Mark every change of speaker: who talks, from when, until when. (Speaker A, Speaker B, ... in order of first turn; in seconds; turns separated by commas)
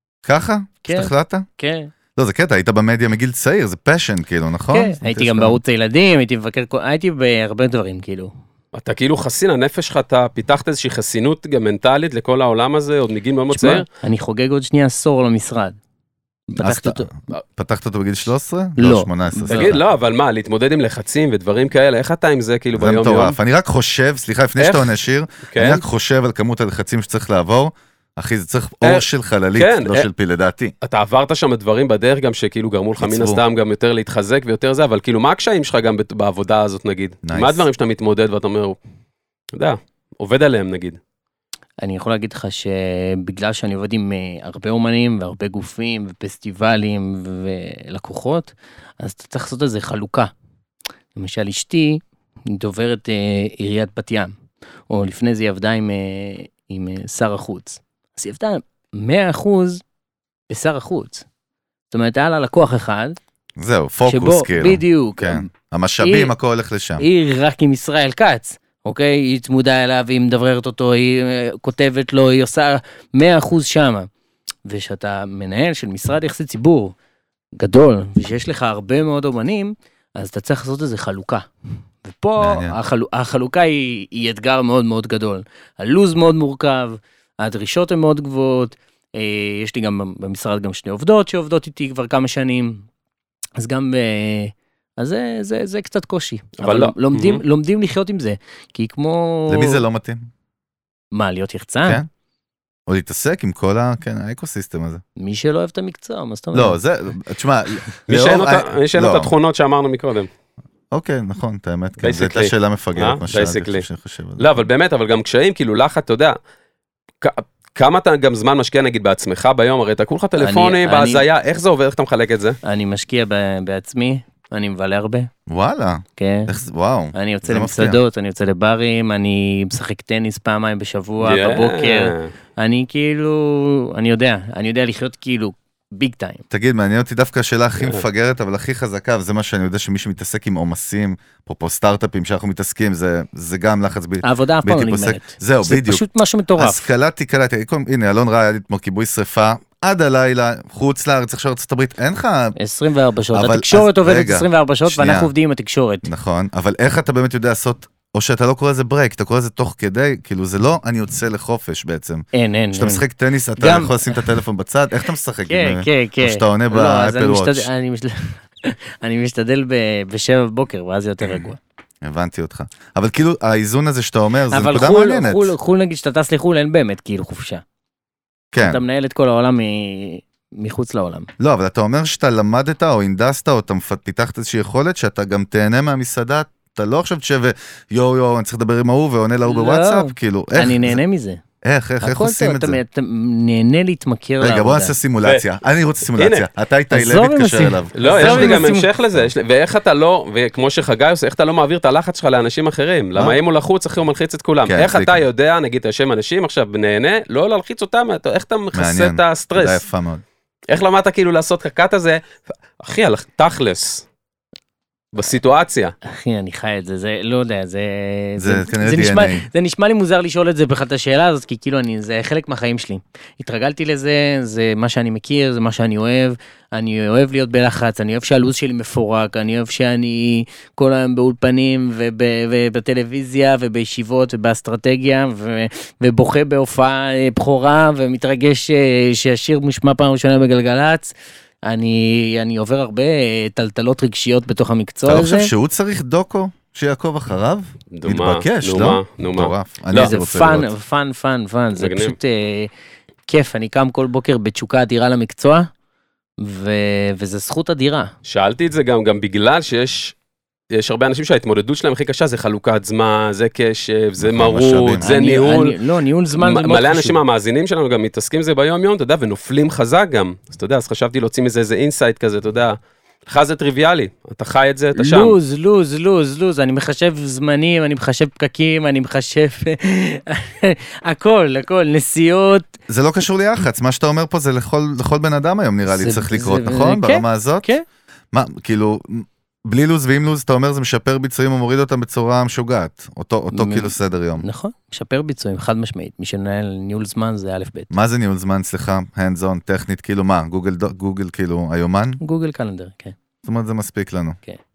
Speaker A: 0.2-1.4, Speaker B: 0.8-1.9, Speaker A: 2.2-5.6, Speaker B: 4.7-8.3, Speaker C: 8.7-13.9, Speaker B: 13.5-15.8, Speaker B: 16.5-17.1, Speaker A: 16.6-19.8, Speaker B: 18.8-19.8, Speaker C: 19.5-23.4, Speaker A: 22.8-30.7, Speaker C: 24.6-25.0, Speaker C: 25.5-25.8, Speaker C: 28.8-30.1, Speaker C: 30.8-38.8, Speaker A: 33.0-33.4, Speaker A: 37.2-37.7, Speaker C: 39.5-41.0, Speaker B: 41.8-50.3, Speaker B: 51.1-54.3, Speaker B: 54.9-59.8, Speaker B: 60.5-61.3, Speaker B: 61.9-63.2, Speaker A: 63.6-67.0, Speaker B: 64.1-65.5, Speaker B: 66.0-66.3, Speaker B: 67.0-74.1, Speaker B: 74.7-77.0, Speaker B: 77.6-81.5, Speaker B: 82.0-92.9, Speaker A: 82.4-82.8, Speaker B: 93.6-99.8, Speaker C: 96.6-97.4, Speaker A: 99.5-100.3, Speaker B: 101.1-102.0, Speaker A: 102.9-105.0, Speaker B: 105.2-106.8, Speaker A: 106.5-109.3, Speaker C: 108.1-110.3, Speaker A: 110.9-114.5, Speaker C: 112.0-113.9, Speaker C: 114.4-116.4, Speaker C: 117.2-122.6, Speaker B: 120.4-121.2, Speaker B: 122.6-125.3, Speaker A: 125.5-128.0, Speaker B: 126.2-126.5, Speaker B: 127.1-136.4, Speaker C: 131.2-132.3, Speaker A: 136.5-146.0, Speaker B: 144.2-146.9, Speaker A: 146.6-152.6, Speaker B: 152.6-156.1, Speaker A: 153.3-155.3, Speaker A: 156.1-167.7, Speaker B: 162.3-163.1, Speaker B: 163.6-164.3, Speaker B: 165.5-171.6, Speaker A: 172.0-175.5, Speaker B: 174.5-177.6, Speaker A: 178.5-178.8, Speaker B: 178.6-181.3, Speaker A: 181.4-191.0, Speaker B: 189.5-191.4, Speaker A: 191.6-192.8, Speaker B: 192.0-194.9, Speaker A: 194.4-199.3, Speaker C: 196.2-196.4, Speaker B: 196.9-198.9, Speaker C: 198.0-209.8, Speaker A: 204.7-205.2, Speaker A: 208.7-210.2, Speaker C: 210.7-212.2, Speaker C: 212.8-214.1, Speaker C: 215.1-215.9, Speaker B: 216.0-241.1, Speaker A: 218.4-219.5, Speaker B: 241.7-245.5, Speaker A: 245.1-250.7, Speaker C: 247.9-250.1, Speaker B: 249.9-252.7, Speaker C: 251.8-252.2, Speaker B: 253.3-255.7, Speaker B: 256.4-258.1, Speaker C: 258.3-260.1, Speaker C: 260.7-265.8, Speaker A: 264.2-265.0, Speaker B: 265.0-267.2, Speaker C: 266.4-275.4, Speaker B: 275.0-282.7, Speaker A: 282.9-287.7, Speaker B: 285.9-287.8, Speaker A: 288.3-294.5, Speaker B: 293.5-297.9, Speaker A: 297.9-302.2, Speaker B: 302.2-303.1, Speaker A: 303.4-304.4